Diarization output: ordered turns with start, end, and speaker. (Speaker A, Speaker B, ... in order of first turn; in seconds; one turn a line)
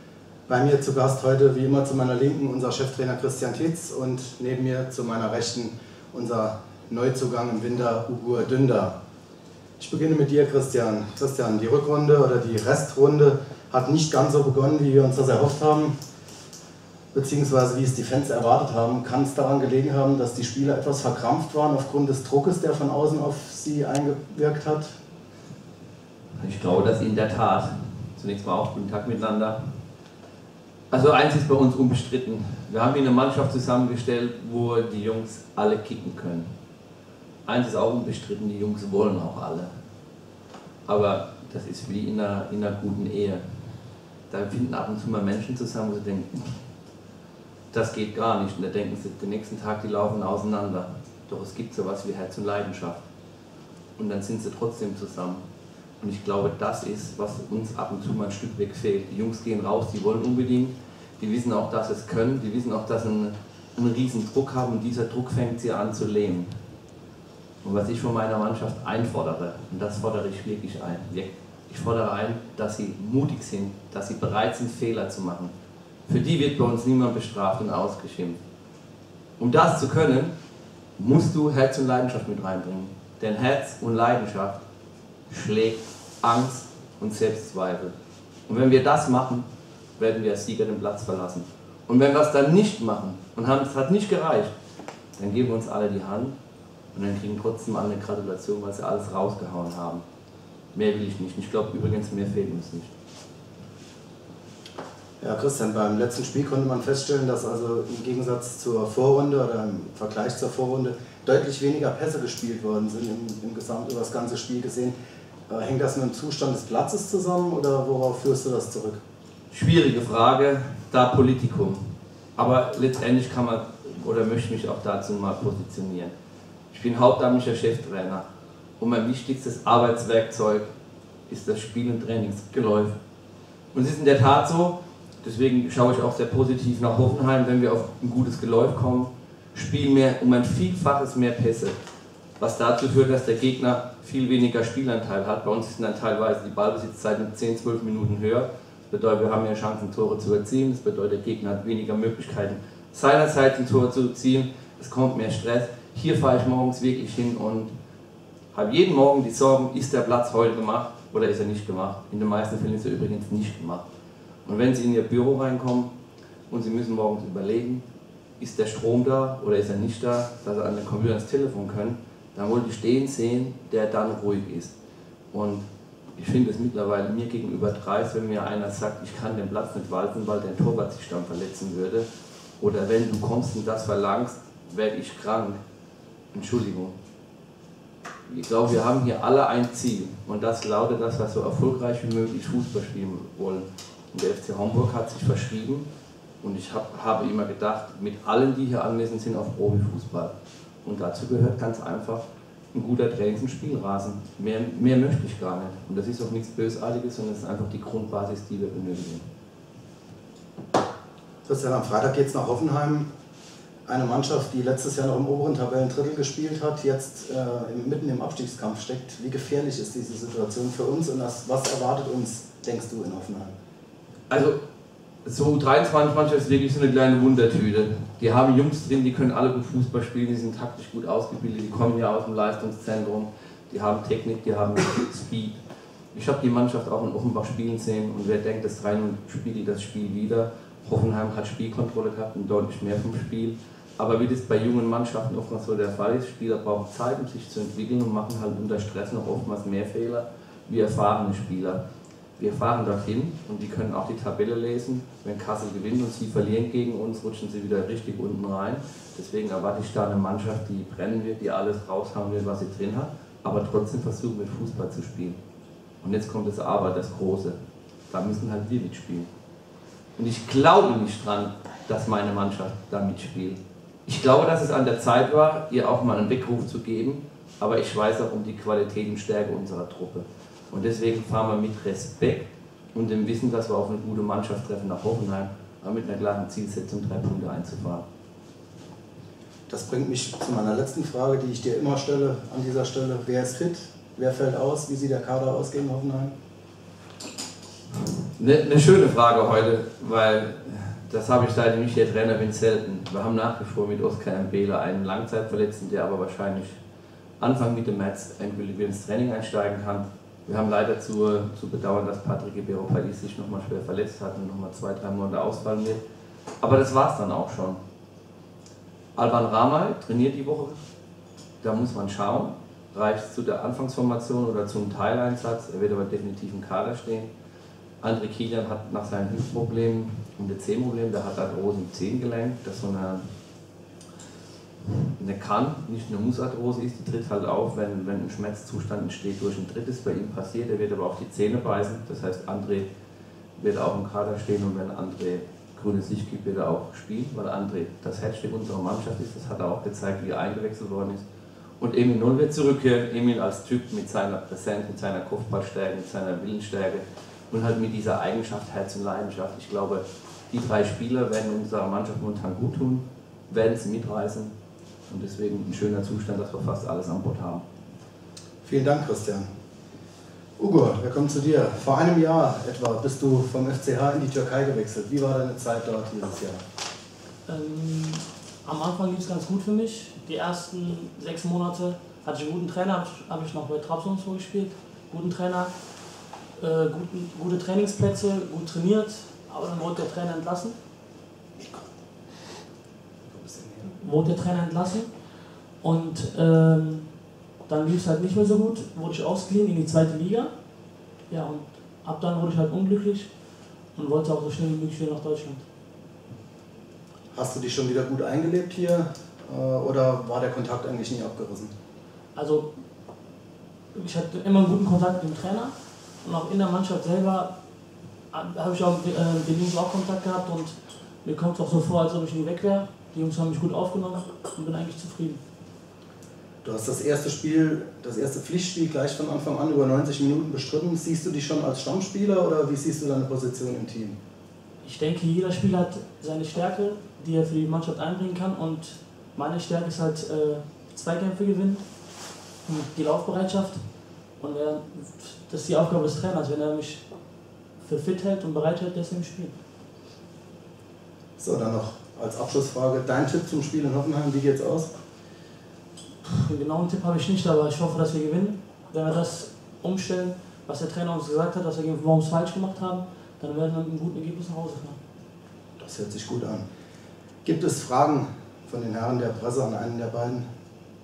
Speaker A: 0.5-8.9
Speaker A: 9.8-15.9
Speaker A: 17.1-24.9
Speaker B: 26.4-29.8
Speaker B: 30.9-36.5
Speaker B: 37.5-39.7
Speaker B: 40.9-46.6
Speaker B: 47.7-53.0
Speaker B: 54.0-55.4
Speaker B: 56.0-66.5
Speaker B: 67.6-75.5
Speaker B: 76.1-78.4
Speaker B: 79.4-80.3
Speaker B: 81.0-84.6
Speaker B: 85.3-87.9
Speaker B: 88.5-94.5
Speaker B: 95.2-96.3
Speaker B: 96.9-100.0
Speaker B: 100.7-102.9
Speaker A: 105.2-114.9
Speaker A: 115.5-119.0
Speaker B: 119.5-126.1
Speaker B: 126.7-128.2
Speaker B: 128.8-130.7
Speaker B: 131.3-132.9
Speaker B: 133.7-141.8
Speaker B: 142.4-157.7
Speaker B: 158.5-163.8
Speaker B: 164.4-165.9
Speaker B: 166.5-167.8
Speaker B: 168.4-174.7
Speaker B: 175.3-182.1
Speaker B: 182.6-185.6
Speaker B: 186.3-186.9
Speaker B: 188.2-195.8
Speaker B: 196.4-200.3
Speaker B: 200.8-209.3
Speaker A: 211.4-213.1
Speaker A: 213.9-223.5
Speaker B: 224.3-224.6
Speaker B: 225.2-235.5
Speaker B: 236.1-251.8
Speaker B: 252.4-265.4
Speaker B: 266.0-267.6
Speaker B: 268.1-269.3
Speaker B: 270.2-288.0
Speaker A: 289.7-296.3
Speaker B: 298.3-306.8
Speaker B: 307.4-316.0
Speaker B: 316.6-317.8
Speaker B: 319.1-320.8
Speaker B: 321.6-327.3
Speaker B: 328.0-333.3
Speaker B: 335.1-342.9
Speaker B: 343.6-351.2
Speaker B: 351.8-364.5
Speaker B: 365.1-367.6
Speaker A: 368.6-369.5
Speaker A: 370.6-376.6
Speaker C: 377.4-385.7
Speaker C: 386.5-390.8
Speaker A: 393.3-393.9
Speaker C: 393.9-400.5
Speaker C: 401.3-403.4
Speaker C: 403.9-405.6
Speaker A: 407.3-411.7
Speaker C: 412.3-412.7
Speaker C: 413.9-417.5
Speaker C: 418.3-425.4
Speaker A: 426.6-434.1
Speaker C: 434.8-441.8
Speaker C: 442.6-443.8
Speaker C: 444.4-447.1
Speaker C: 447.8-449.5
Speaker A: 451.4-454.9
Speaker C: 456.2-465.0
Speaker A: 465.8-466.6
Speaker A: 467.4-470.4